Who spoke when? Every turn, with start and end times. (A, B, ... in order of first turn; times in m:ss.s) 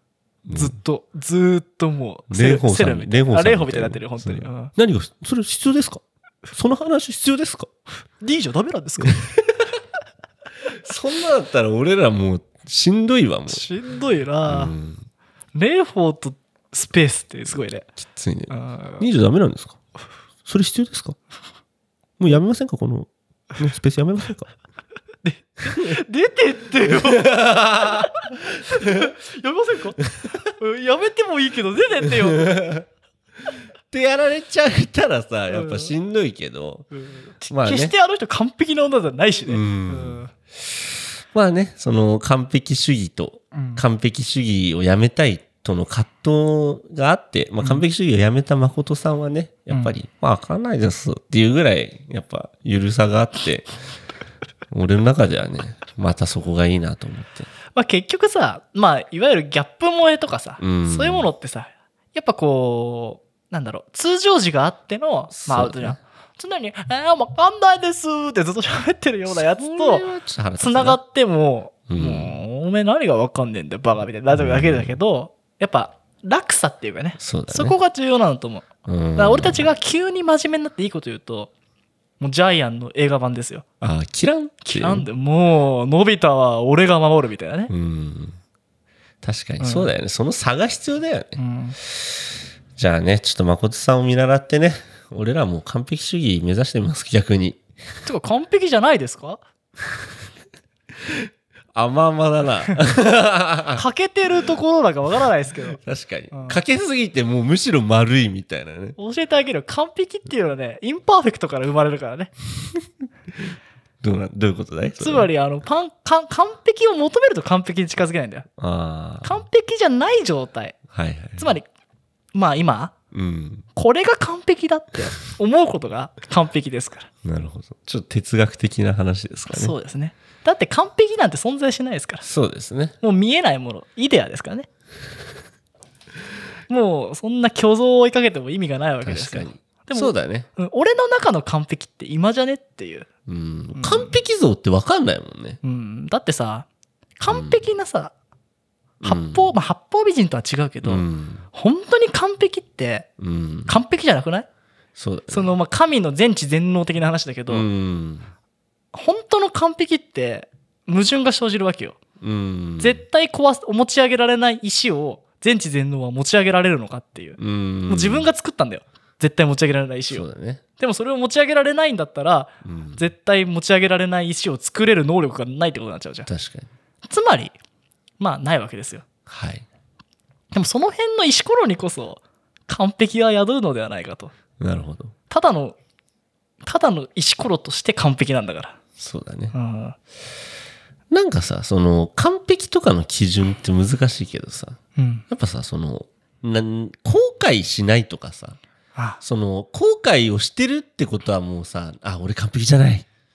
0:00.4-0:00.8 A
0:00.5-0:04.7 B
0:02.3-0:07.7 A
0:08.2-0:09.3 B
0:10.7-0:13.7 A
0:13.5-0:14.7 B
0:14.4-0:15.1 A
0:15.5-0:17.9 B
0:18.0-0:19.8 A
0:18.5-0:19.0 B
0:20.4-0:21.2 A
0:22.2-0:24.5 A
0:25.2-0:32.6 B
0:25.7-0:26.0 A
0:26.8-0:29.1 A
0:30.1-0:30.4 A
0:32.0-0:32.8 A
0:33.9-0:36.9 A
0:35.5-0:35.9 B
0:36.9-0:40.3 B
0:37.5-0:37.9 A
0:39.5-0:40.2 A
0:41.3-0:53.7 A
0:43.5-0:43.8 B
0:54.7-0:57.5 A
0:57.7-1:10.0 B
1:00.6-1:01.3 A
1:05.3-1:06.0 A
1:09.3-1:11.0 A
1:10.6-1:21.5 B
1:11.9-1:12.4 A
1:14.3-1:14.9 A
1:17.2-1:17.8 A
1:18.8-1:19.7 A
1:22.2-1:23.6 B
1:23.8-1:25.0 A
1:24.6-1:27.7 B
1:27.7-1:28.4 A
1:29.2-1:32.2 A
1:29.6-1:29.9 B
1:31.4-1:31.8 B
1:32.8-1:37.6 A
1:38.0-1:39.4 B
1:41.0-1:43.8 A
1:43.7-1:46.6 B
1:45.8-1:49.0 A
1:49.0-1:52.3 B
1:54.0-1:55.3 A
1:55.0-1:58.5 B
1:58.6-1:59.4 A
1:59.2-2:00.8 B
2:00.9-2:01.5 A
2:01.4-2:01.7 B
2:02.3-2:02.9 B
2:03.1-2:03.6 A
2:03.7-2:07.1 B
2:07.2-2:09.7 A
2:09.5-2:12.2 B
2:12.2-2:13.0 A
2:13.0-2:14.7 B
2:16.7-2:23.1 B
2:19.0-2:20.5 A
2:23.3-2:25.6 A
2:23.7-2:24.2 B
2:25.6-2:26.7 B
2:27.2-2:28.1 B
2:27.3-2:27.6 A
2:29.0-2:29.5 A
2:29.0-2:33.1 B
2:30.8-2:31.4 A
2:33.2-2:33.8 A
2:33.7-2:34.5 B
2:35.0-2:35.5 A
2:35.3-2:37.6 B
2:37.5-2:38.3 A
2:38.9-2:42.0 B
2:42.2-2:43.0 A
2:42.8-2:50.2 B
2:47.4-2:48.3 A
2:50.1-2:50.6 A
2:50.8-2:56.3 B
2:52.6-2:53.0 A
2:56.3-2:56.7 A
2:57.0-2:57.5 B
2:58.2-2:59.0 B
2:59.3-2:59.6 A
3:00.5-3:04.3 B
3:04.6-3:05.1 A
3:05.3-3:05.8 B
3:06.6-3:08.8 B
3:09.0-3:09.5 A
3:09.5-3:10.0 B
3:11.1-3:14.8 A
3:15.0-3:15.2 B
3:15.3-3:18.6 A
3:18.9-3:19.2 B
3:19.2-3:23.0 A